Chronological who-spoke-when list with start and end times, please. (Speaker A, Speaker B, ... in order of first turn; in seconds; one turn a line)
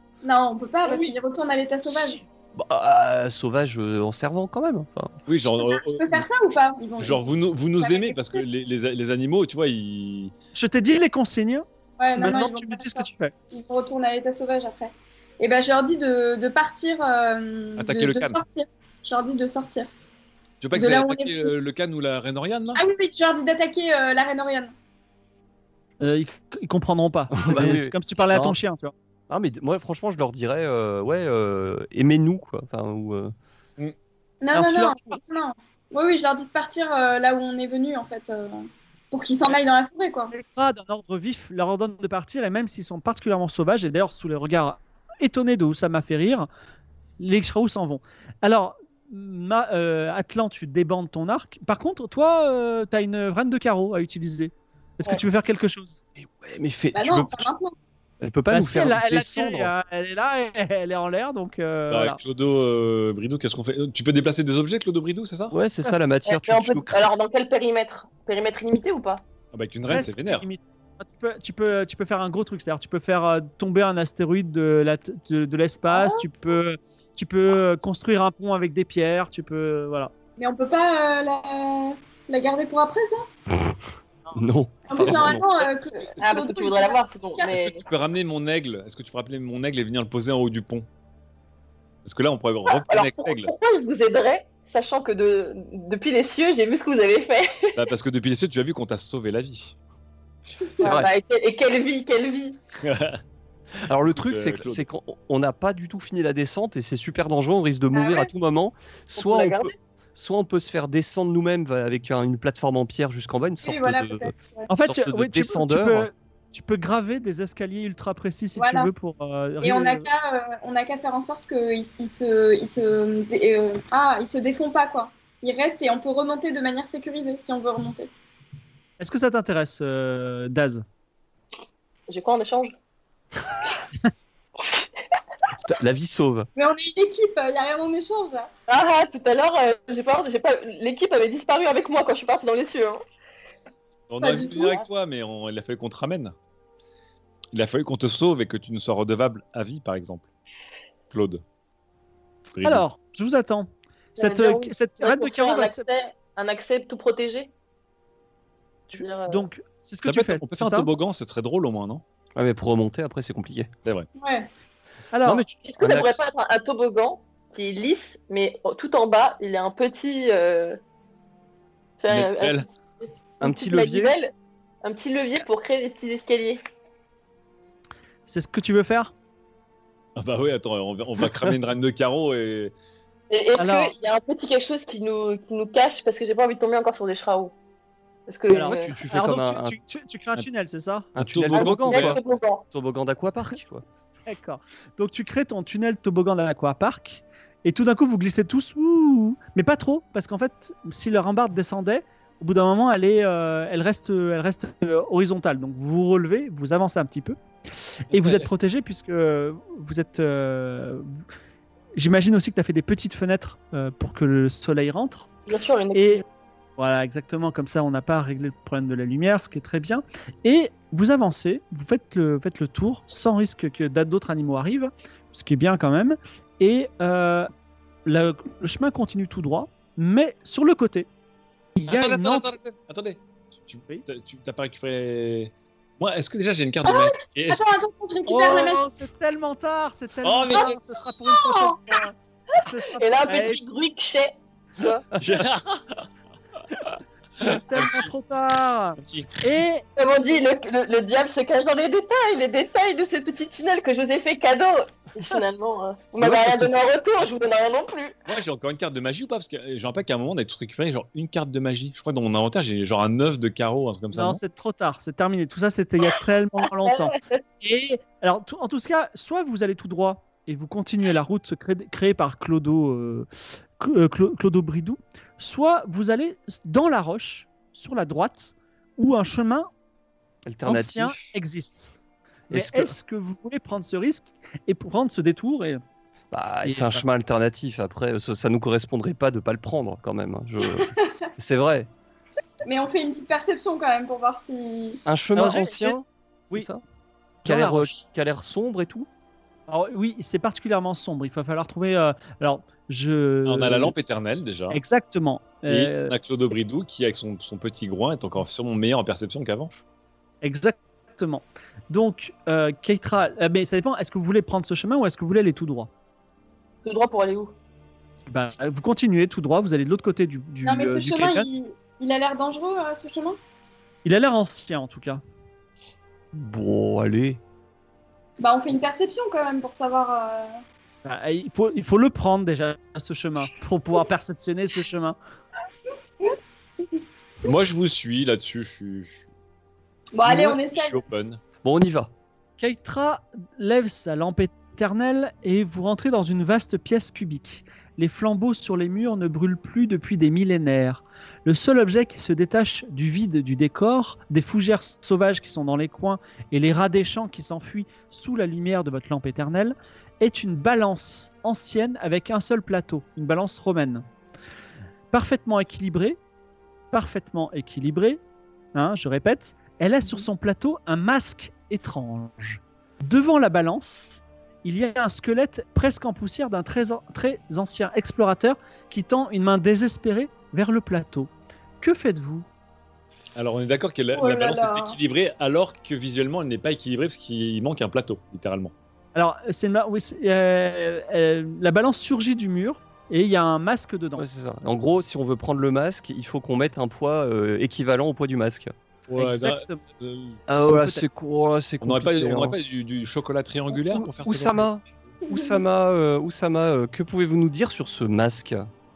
Speaker A: 0.2-2.2
Speaker B: 2.5-5.2
Speaker C: 5.3-6.2
Speaker A: 5.5-8.4
Speaker C: 7.0-10.3
Speaker D: 10.5-11.7
Speaker A: 12.0-19.9
Speaker D: 12.2-13.3
Speaker C: 17.8-18.4
Speaker C: 20.6-22.8
Speaker A: 20.7-21.5
Speaker A: 22.8-24.7
Speaker D: 26.0-28.9
Speaker B: 27.4-28.6
Speaker B: 29.3-33.3
Speaker A: 34.4-40.3
Speaker D: 34.5-35.2
Speaker D: 40.3-46.5
Speaker D: 47.2-56.0
Speaker B: 56.2-57.5
Speaker A: 56.9-57.7
Speaker B: 58.2-59.7
Speaker D: 58.5-62.2
Speaker C: 61.9-65.5
Speaker B: 65.5-67.0
Speaker E: 66.3-69.2
Speaker C: 69.5-70.5
Speaker D: 69.9-80.1
Speaker E: 75.9-76.2
Speaker A: 80.4-83.2
Speaker B: 84.3-85.5
Speaker A: 84.9-87.5
Speaker C: 85.0-85.4
Speaker E: 86.2-87.8
Speaker C: 87.5-90.9
Speaker C: 92.0-93.5
Speaker E: 92.7-97.8
Speaker C: 97.8-99.7
Speaker E: 100.8-102.6
Speaker B: 100.8-101.1
Speaker C: 102.8-103.2
Speaker B: 103.9-116.1
Speaker C: 104.1-104.8
Speaker A: 108.0-108.2
Speaker E: 109.2-109.7
Speaker A: 113.6-114.7
Speaker D: 114.7-120.1
Speaker A: 118.6-118.9
Speaker A: 119.6-128.1
Speaker D: 129.0-130.8
Speaker E: 132.1-132.7
Speaker B: 135.7-136.5
Speaker A: 136.6-138.5
Speaker E: 138.7-143.0
Speaker C: 144.1-146.3
Speaker A: 144.2-144.7
Speaker E: 144.4-144.8
Speaker C: 147.5-150.3
Speaker C: 151.1-151.4
Speaker C: 152.5-152.8
Speaker D: 152.6-155.9
Speaker E: 154.2-157.5
Speaker D: 158.9-160.9
Speaker E: 158.9-159.4
Speaker C: 160.0-162.0
Speaker B: 162.4-163.7
Speaker A: 164.2-164.5
Speaker D: 165.1-165.5
Speaker B: 165.2-166.2
Speaker E: 165.7-170.8
Speaker E: 172.0-172.6
Speaker C: 172.1-172.7
Speaker B: 173.4-174.1
Speaker E: 173.4-174.3
Speaker E: 174.8-176.6
Speaker D: 178.3-179.1
Speaker C: 180.2-182.7
Speaker E: 183.3-187.5
Speaker D: 183.6-183.9
Speaker E: 188.3-188.9
Speaker D: 188.5-192.1
Speaker B: 188.6-189.8
Speaker B: 191.2-192.2
Speaker C: 191.2-192.2
Speaker E: 191.6-192.6
Speaker B: 192.7-193.8
Speaker D: 194.3-207.4
Speaker D: 208.1-211.2
Speaker C: 208.1-208.6
Speaker D: 211.9-215.3
Speaker E: 215.5-216.2
Speaker D: 215.9-216.2
Speaker D: 216.8-227.5
Speaker D: 228.1-231.1
Speaker D: 231.8-232.5
Speaker C: 231.9-237.6
Speaker A: 236.8-238.8
Speaker D: 238.3-243.6
Speaker C: 240.2-240.8
Speaker E: 243.0-245.0
Speaker C: 245.2-246.0
Speaker C: 247.4-248.1
Speaker D: 247.4-249.8
Speaker C: 249.0-249.4
Speaker E: 250.0-258.1
Speaker B: 256.2-256.7
Speaker C: 258.3-264.4
Speaker D: 264.1-273.3
Speaker E: 266.9-267.4
Speaker D: 273.8-279.7
Speaker B: 280.4-281.4
Speaker D: 280.7-281.9
Speaker B: 282.5-282.9
Speaker D: 282.5-285.8
Speaker B: 286.3-291.9
Speaker D: 286.6-287.1
Speaker A: 292.6-295.0
Speaker B: 295.1-296.8
Speaker D: 295.4-296.7
Speaker D: 297.4-298.0
Speaker B: 297.4-299.1
Speaker D: 299.7-303.9
Speaker C: 303.4-304.8
Speaker D: 304.7-306.1
Speaker C: 305.7-309.8
Speaker D: 310.4-315.9
Speaker E: 316.9-317.5
Speaker D: 318.3-321.5
Speaker A: 320.6-323.4
Speaker D: 324.0-325.2
Speaker B: 326.3-327.4
Speaker A: 328.4-330.6
Speaker D: 331.1-335.2
Speaker C: 337.4-339.2
Speaker A: 340.1-341.0
Speaker C: 340.2-341.4
Speaker B: 341.6-342.1
Speaker D: 342.6-364.1
Speaker D: 365.1-366.2
Speaker D: 366.9-368.2
Speaker D: 368.7-381.3
Speaker D: 381.8-382.4
Speaker C: 383.4-388.7
Speaker A: 384.1-385.0
Speaker D: 389.1-394.2
Speaker B: 394.2-398.7
Speaker C: 399.1-400.4
Speaker D: 399.2-399.8
Speaker B: 400.5-402.6
Speaker D: 400.7-401.1
Speaker C: 401.8-404.7
Speaker B: 404.2-408.7